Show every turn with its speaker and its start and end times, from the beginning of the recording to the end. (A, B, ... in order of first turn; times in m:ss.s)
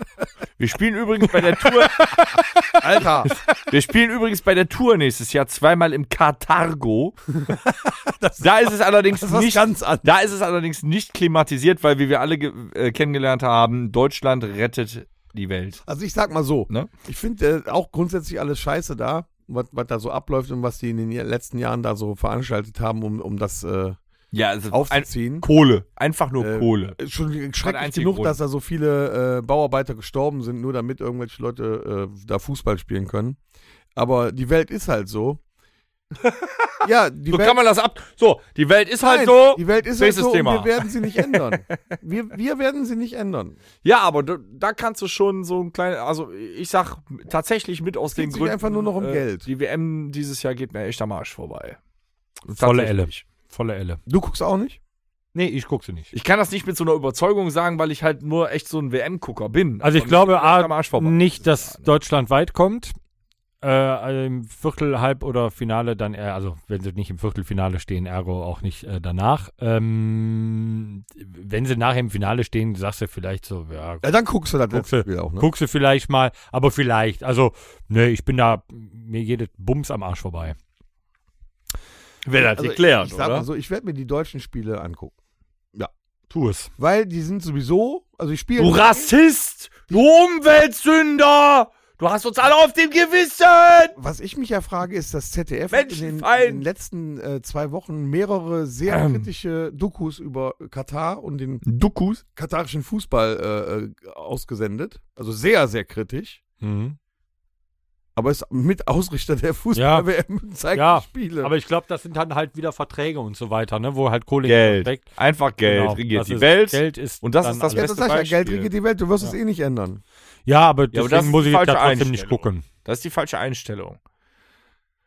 0:00.6-0:02.5 A
0:01.7-0:02.3 B
0:02.8-0:03.3 C
0:03.2-0:07.4 A
0:07.4-0:10.2 C
0:08.4-0:15.8 A
0:15.9-0:24.0 C
0:24.3-0:27.0 A
0:24.7-0:25.5 C
0:26.4-0:33.4 C
0:27.6-0:28.4 A
0:34.0-0:35.4 C
0:36.2-0:41.5 A
0:36.8-0:37.6 C
0:39.0-0:43.6 C
0:43.8-0:51.8 A
0:48.1-0:49.5 C
0:52.5-0:53.2 A
0:52.5-0:54.0 B
0:54.1-0:54.8 C
0:55.3-0:56.1 B
0:56.1-1:01.9 A
0:59.8-1:02.9 B
1:03.6-1:14.0 B
1:14.0-1:15.5 C
1:14.7-1:20.6 B
1:22.2-1:23.5 A
1:22.4-1:25.1 C
1:26.3-1:26.7 B
1:26.8-1:29.1 C
1:28.6-1:34.0 A
1:34.0-1:41.6 C
1:35.7-1:36.6 A
1:38.9-1:39.3 A
1:41.6-1:42.2 A
1:42.4-1:46.4 C
1:46.6-1:47.0 B
1:48.2-1:51.5 C
1:49.7-1:50.1 B
1:50.7-1:55.1 B
1:54.4-1:58.7 A
1:55.6-1:57.9 B
1:57.7-2:00.0 C
2:00.5-2:02.6 B
2:00.9-2:04.0 A